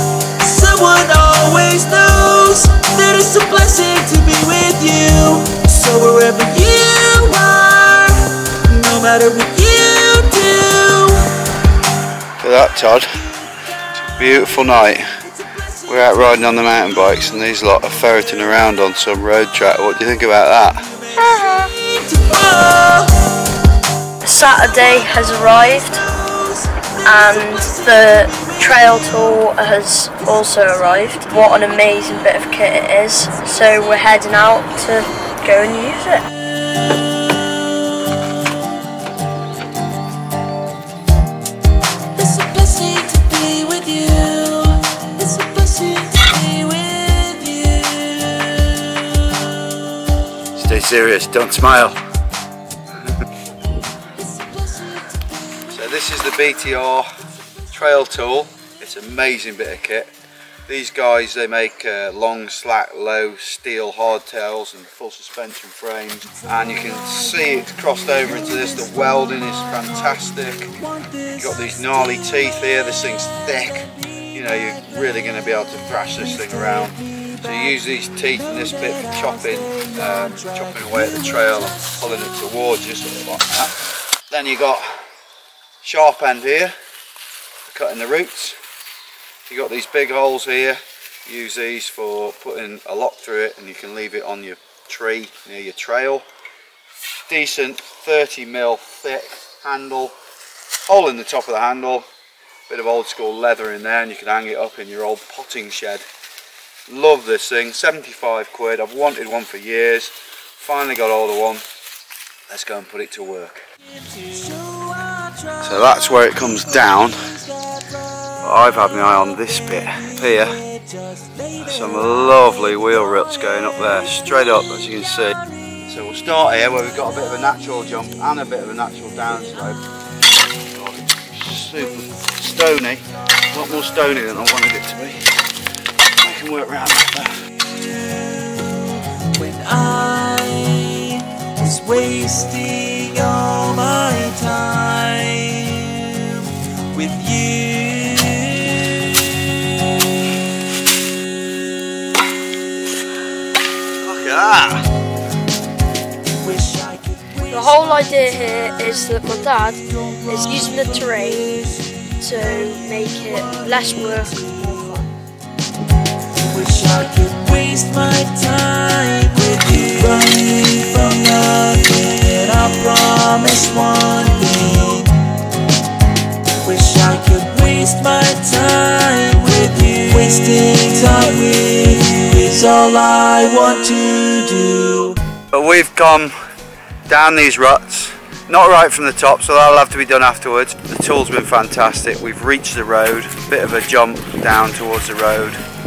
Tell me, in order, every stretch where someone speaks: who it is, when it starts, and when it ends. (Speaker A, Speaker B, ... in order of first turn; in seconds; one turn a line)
Speaker A: 0.4-11.2
Speaker B: 12.4-13.1
Speaker B: 14.1-15.0
Speaker A: 15.6-16.4
Speaker B: 15.9-20.9
Speaker A: 20.9-23.1
Speaker C: 21.1-21.7
Speaker C: 24.2-26.0
Speaker A: 24.8-29.3
Speaker C: 27.0-36.2
Speaker A: 36.8-37.0
Speaker A: 42.1-49.9
Speaker B: 50.5-52.0
Speaker A: 54.1-55.2
Speaker B: 55.7-57.1
Speaker B: 57.7-60.1
Speaker B: 60.7-70.7
Speaker A: 66.3-70.2
Speaker A: 70.8-72.3
Speaker B: 71.4-83.7
Speaker A: 73.3-73.7
Speaker A: 74.7-75.1
Speaker A: 76.3-77.8
Speaker A: 78.3-82.0
Speaker B: 84.3-84.9
Speaker B: 85.8-86.7
Speaker B: 87.7-88.6
Speaker B: 89.5-96.2
Speaker B: 97.3-100.1
Speaker B: 100.9-102.0
Speaker B: 102.7-106.0
Speaker B: 106.9-111.6
Speaker B: 112.5-113.6
Speaker A: 114.0-117.8
Speaker B: 115.6-117.2
Speaker B: 118.4-120.5
Speaker A: 120.5-122.3
Speaker B: 121.6-129.8
Speaker A: 125.3-125.8
Speaker B: 130.7-135.2
Speaker B: 136.2-137.3
Speaker A: 139.3-149.4
Speaker B: 154.0-154.8
Speaker A: 156.4-157.9
Speaker C: 157.5-161.6
Speaker A: 160.1-161.4
Speaker C: 162.2-165.0
Speaker A: 162.5-164.9
Speaker A: 166.4-175.1
Speaker A: 176.6-185.2
Speaker B: 185.5-186.3
Speaker B: 187.1-195.6